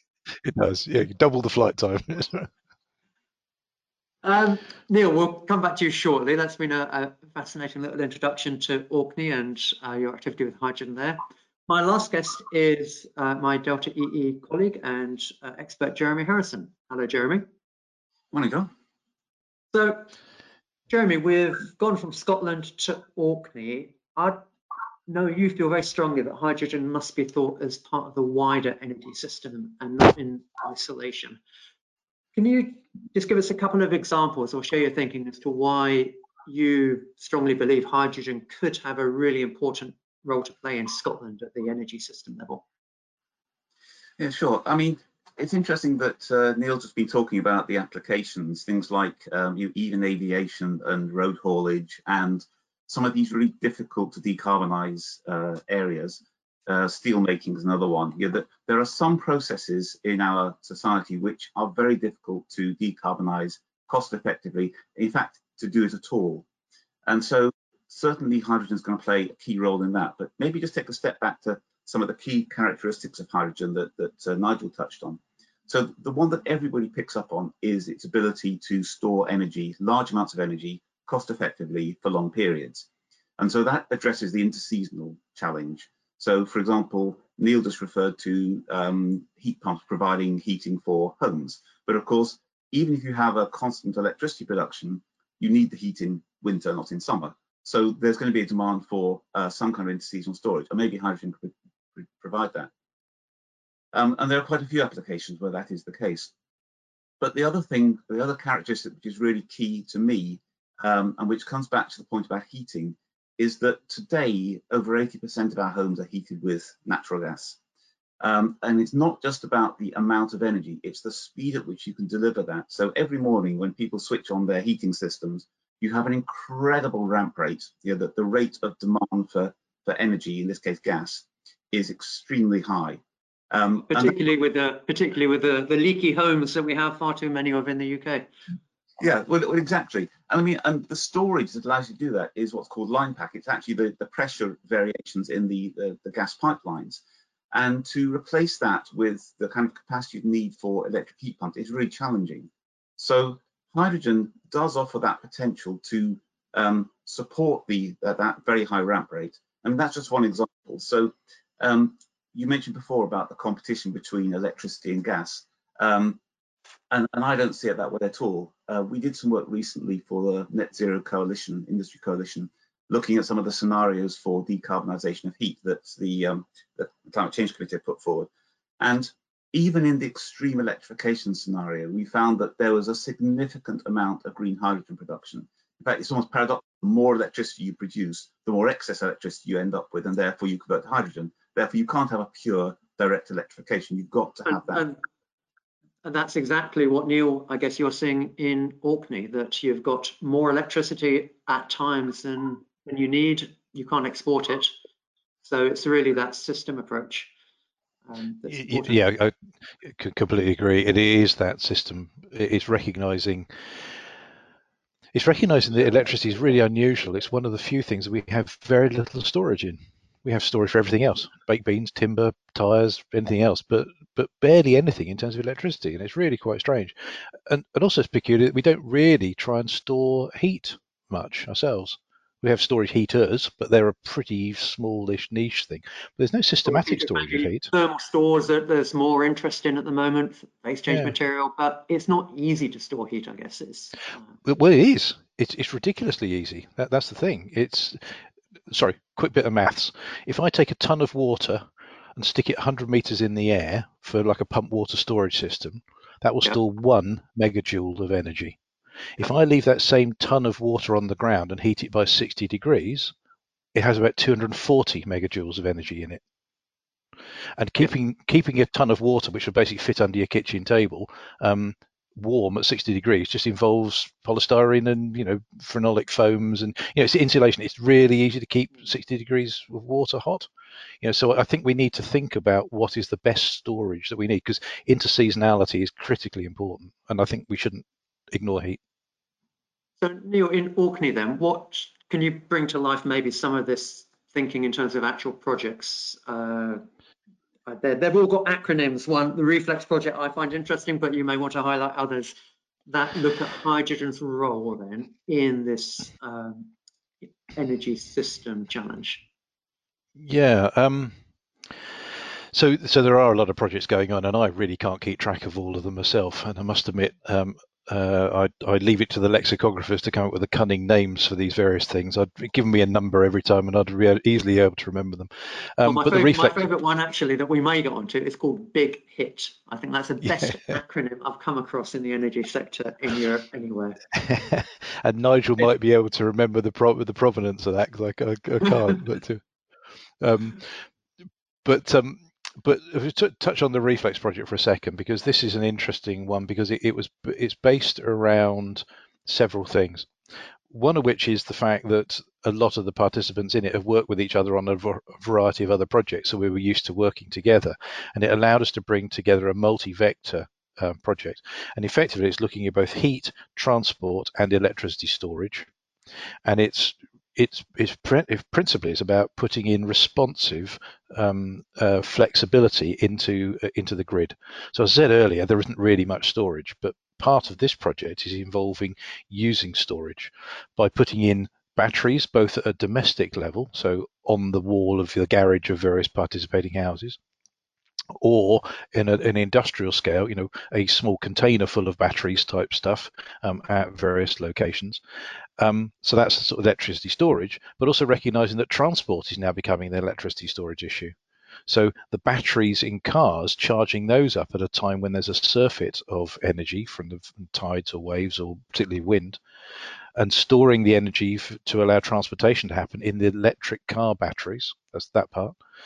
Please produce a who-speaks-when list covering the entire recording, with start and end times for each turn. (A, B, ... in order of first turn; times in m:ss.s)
0:00.4-0:02.5 A
0:04.2-0:17.4 B
0:18.3-0:18.7 C
0:19.7-0:20.1 B
0:20.9-0:24.4 B
0:25.1-0:31.4 B
0:32.3-0:42.6 B
0:44.2-1:06.4 C
1:07.0-1:42.7 C
1:43.9-1:46.3 C
1:47.2-1:57.6 C
1:58.2-2:14.2 C
2:13.9-2:18.3 B
2:19.0-2:27.0 C
2:27.5-2:46.2 C
2:46.9-3:14.8 C
3:14.4-3:15.0 B
3:16.0-3:24.7 B
3:25.4-3:27.3 B
3:28.0-3:29.0 B
3:28.5-3:33.5 A
3:35.1-3:46.9 A
3:47.5-3:57.7 A
3:56.6-4:04.2 B
4:00.9-4:01.1 A
4:04.4-4:08.1 A
4:08.7-4:11.6 A
4:12.2-4:18.6 A
4:19.2-4:23.1 A
4:23.7-4:26.2 A
4:27.6-4:40.5 A
4:41.0-4:48.8 A
4:50.0-4:56.8 B
4:57.7-5:02.3 B
5:02.9-5:06.7 B
5:07.5-5:09.2 B
5:10.2-5:11.1 A
5:12.5-5:26.6 A
5:25.8-5:34.0 B
5:34.2-5:39.4 A
5:40.2-5:40.8 A
5:41.6-5:50.1 A
5:50.7-6:05.7 A
6:06.4-6:27.2 A
6:28.2-6:35.0 A
6:35.6-6:41.1 A
6:41.7-6:49.4 A
6:50.2-6:55.6 A